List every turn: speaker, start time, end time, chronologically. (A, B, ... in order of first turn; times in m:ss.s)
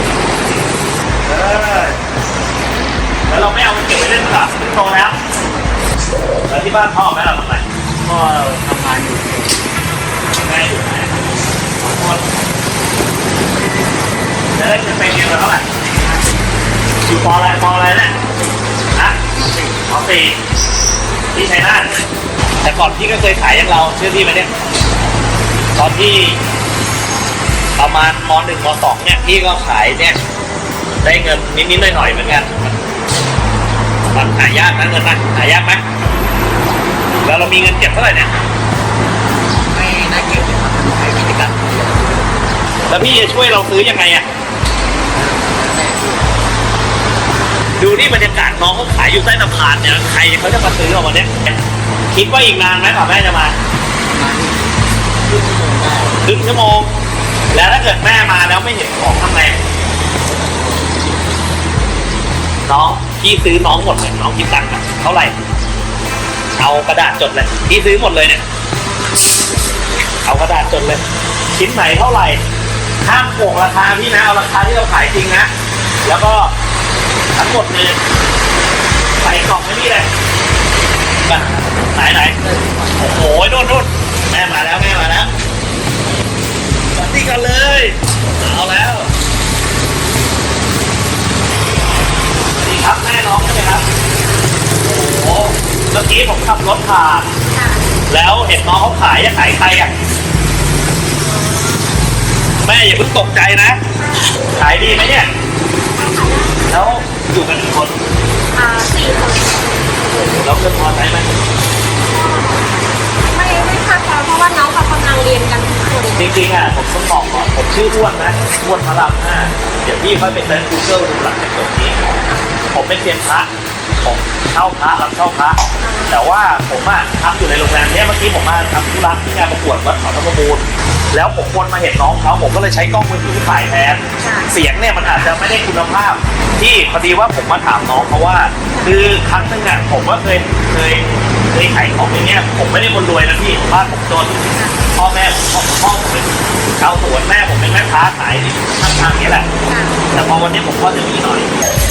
0:01.2-0:02.0 A
0:03.3-0:05.2 A
0:06.5-0:07.6 A
0:08.1-0:09.5 B
0:10.3-0:11.1 A
0:11.8-0:12.2 A
0:14.6-0:15.6 A
0:17.0-0:18.1 A
0:19.0-0:19.2 A
0:19.7-0:20.4 A
0:21.3-0:21.9 A
0:22.6-0:24.5 A
0:25.8-0:26.4 A
0:27.8-0:30.2 A
0:31.0-0:32.8 A
0:34.1-0:35.8 A
0:37.2-0:38.3 A
0:39.8-0:42.1 B
0:42.9-0:44.3 A
0:45.3-0:46.2 B
0:47.8-0:51.6 A
0:52.1-0:53.6 A
0:54.1-0:54.5 B
0:55.3-0:56.1 B
0:56.2-0:56.9 A
0:57.5-0:59.6 A
1:02.6-1:05.4 A
1:06.6-1:08.4 A
1:10.2-1:11.0 A
1:11.5-1:12.4 A
1:13.0-1:15.5 A
1:16.0-1:16.5 A
1:17.4-1:18.0 A
1:19.2-1:20.1 A
1:21.2-1:22.4 A
1:22.9-1:25.3 A
1:26.9-1:29.1 A
1:32.6-1:33.8 A
1:34.8-1:37.3 A
1:37.5-1:37.8 C
1:38.1-1:39.9 A
1:41.2-1:41.9 C
1:42.6-1:43.8 A
1:44.6-1:45.3 A
1:46.0-1:46.8 C
1:46.7-1:48.0 A
1:48.6-1:49.8 C
1:50.1-1:51.3 A
1:52.1-1:52.8 C
1:53.3-1:56.4 C
1:56.2-2:02.2 A
2:02.7-2:03.5 A
2:04.0-2:29.5 A
2:05.8-2:06.2 C
2:14.2-2:14.5 C
2:15.0-2:15.3 C
2:24.5-2:24.8 C
2:29.7-2:30.0 C
2:30.1-2:31.5 A